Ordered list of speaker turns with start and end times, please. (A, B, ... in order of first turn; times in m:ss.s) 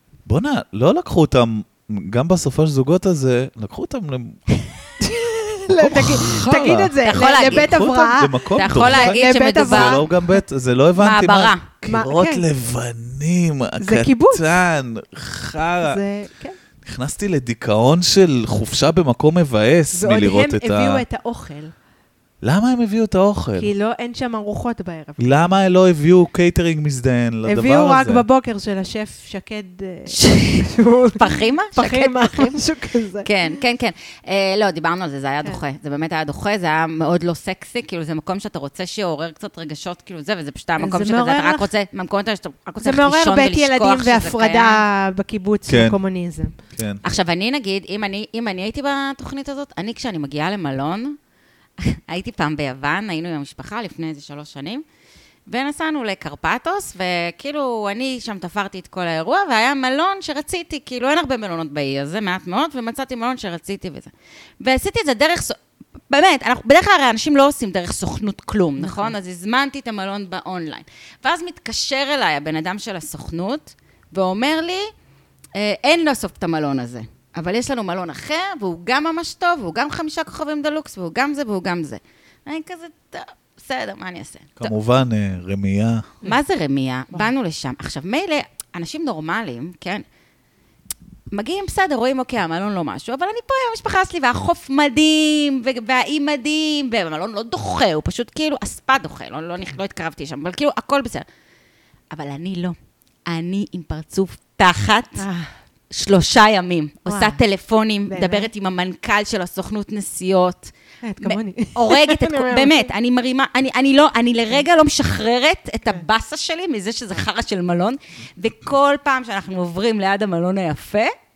0:00.3-0:04.4 A
0:05.0-0:10.1 B
0:05.7-0:16.0 A
0:07.0-0:07.9 C
0:08.6-0:10.0 C
0:11.0-0:11.6 C
0:11.8-0:12.5 B
0:13.8-0:14.5 B
0:15.8-0:16.6 B
0:16.8-0:21.0 A
0:19.9-0:21.7 B
0:22.4-0:23.7 A
0:23.6-0:25.4 B
0:25.2-0:28.2 A
0:27.5-0:33.3 B
0:30.1-0:32.6 C
0:33.2-0:44.8 C
0:40.8-0:41.7 B
0:42.8-0:46.5 B
0:45.7-0:46.0 A
0:46.7-0:47.0 A
0:47.0-0:51.2 C
0:51.8-0:54.8 C
0:55.5-1:05.6 C
1:06.1-1:14.9 C
1:08.8-1:09.2 B
1:15.6-1:24.7 C
1:24.6-1:26.1 A
1:26.2-1:30.0 C
1:31.3-1:41.3 C
1:42.1-1:42.8 C
1:43.3-1:45.2 C
1:45.2-1:45.5 B
1:45.9-2:01.1 C
1:47.1-1:47.4 B
1:48.1-1:48.5 B
1:51.0-1:52.9 B